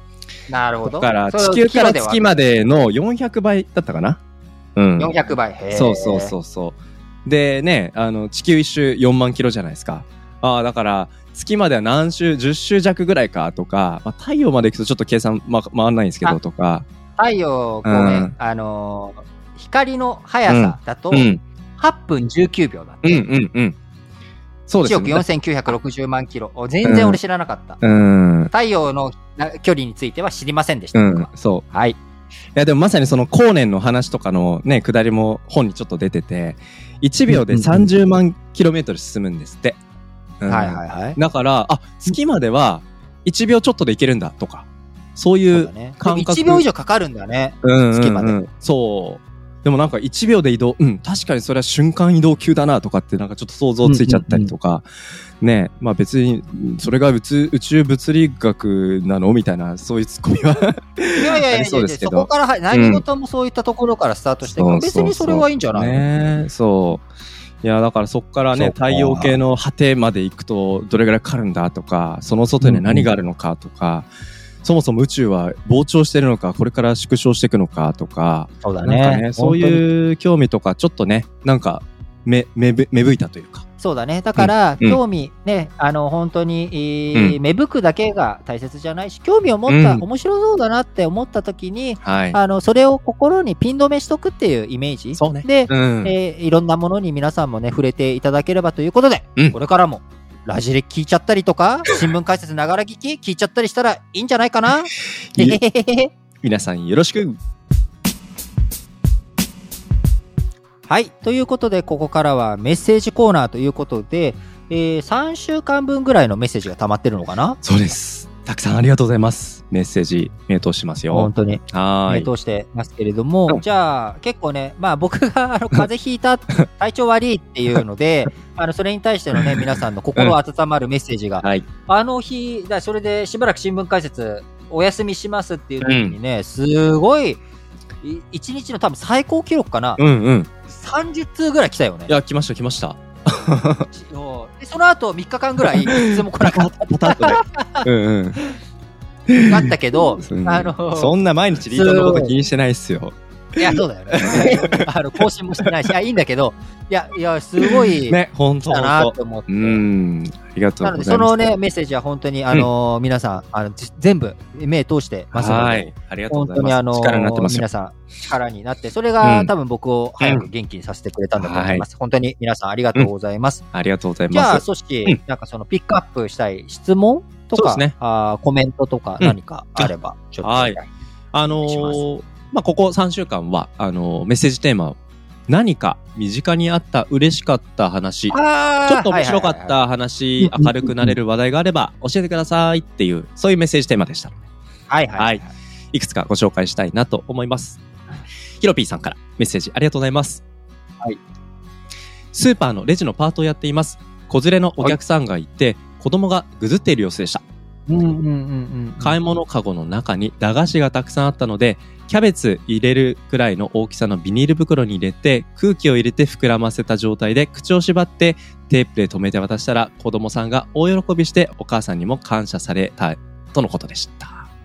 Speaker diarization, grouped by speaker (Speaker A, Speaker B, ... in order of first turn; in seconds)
Speaker A: 0.5-2.6, 5.0-6.3, 17.2-23.3, 24.8-27.8, 28.5-32.0, 37.3-37.9, 40.5-41.2, 45.5-48.4, 53.8-54.5, 61.2-66.0, 68.5-69.3, 72.6-73.1, 78.6-79.8, 83.8-106.1, 110.9-117.6, 121.1-137.4, 138.0-140.0, 140.7-142.2, 143.9-147.9, 149.4-151.1, 151.7-152.3, 153.6-159.8, 160.8-173.6, 174.3-180.9, 181.6-182.0, 188.3-189.8, 190.4-191.2, 194.9-195.5, 207.9-209.2
Speaker B: 0.8-4.2, 4.8-5.2, 5.7-16.9, 17.9-18.3, 20.5-21.4, 23.0-23.8, 24.7-25.2, 26.8-27.2, 27.8-28.5, 30.9-31.6, 32.5-39.8, 40.4-46.6, 47.6-54.9, 55.4-63.0, 64.4-67.0, 67.6-74.1, 74.6-83.7, 84.4-85.0, 89.7-90.0, 92.0-92.4, 95.2-96.2, 105.3-105.6, 106.4-107.4, 117.6-122.3, 129.3-130.4, 135.8-136.2, 140.0-140.5, 142.1-143.9, 145.6-148.4, 149.3-154.9, 157.6-161.4, 165.3-167.7, 169.2-169.5, 170.2-170.5, 171.4-171.8, 173.7-175.2, 177.5-177.9, 179.2-179.9, 180.4-180.8, 181.3-194.3, 195.2-197.8, 198.6-200.4, 202.3-207.4, 209.0-224.5